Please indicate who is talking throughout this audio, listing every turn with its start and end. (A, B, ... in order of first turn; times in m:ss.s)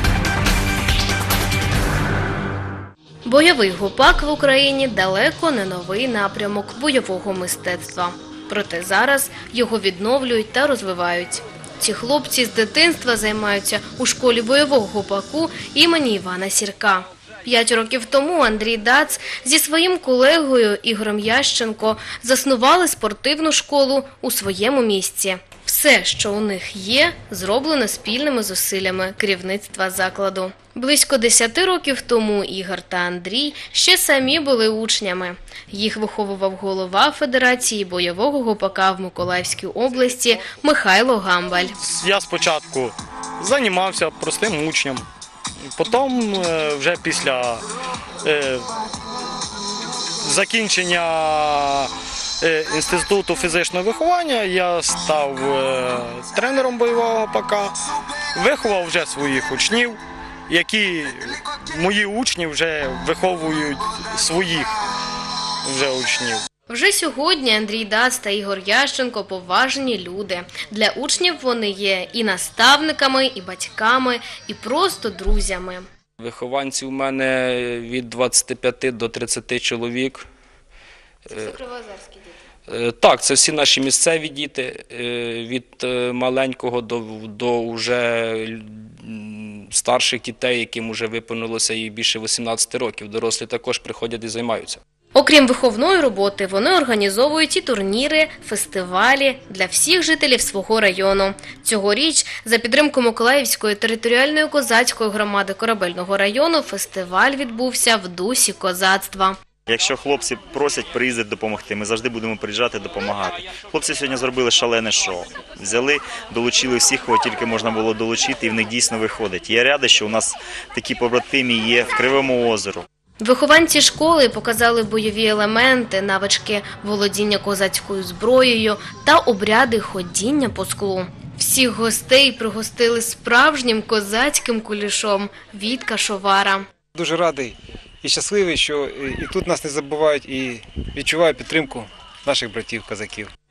0:03.2-0:41.7 A
0:41.6-0:45.0 B
0:45.7-0:47.6 B
0:48.2-0:48.6 B
0:50.2-0:51.9 B
0:52.4-0:57.7 B
0:58.3-1:00.0 B
1:00.5-1:04.7 B
1:05.6-1:06.4 B
1:06.7-1:15.8 A
1:16.2-1:20.2 C
1:21.3-1:22.3 A
1:22.7-1:34.8 C
1:35.1-1:49.3 A
1:49.7-2:02.8 D
2:03.2-2:16.6 A
2:16.9-2:23.3 E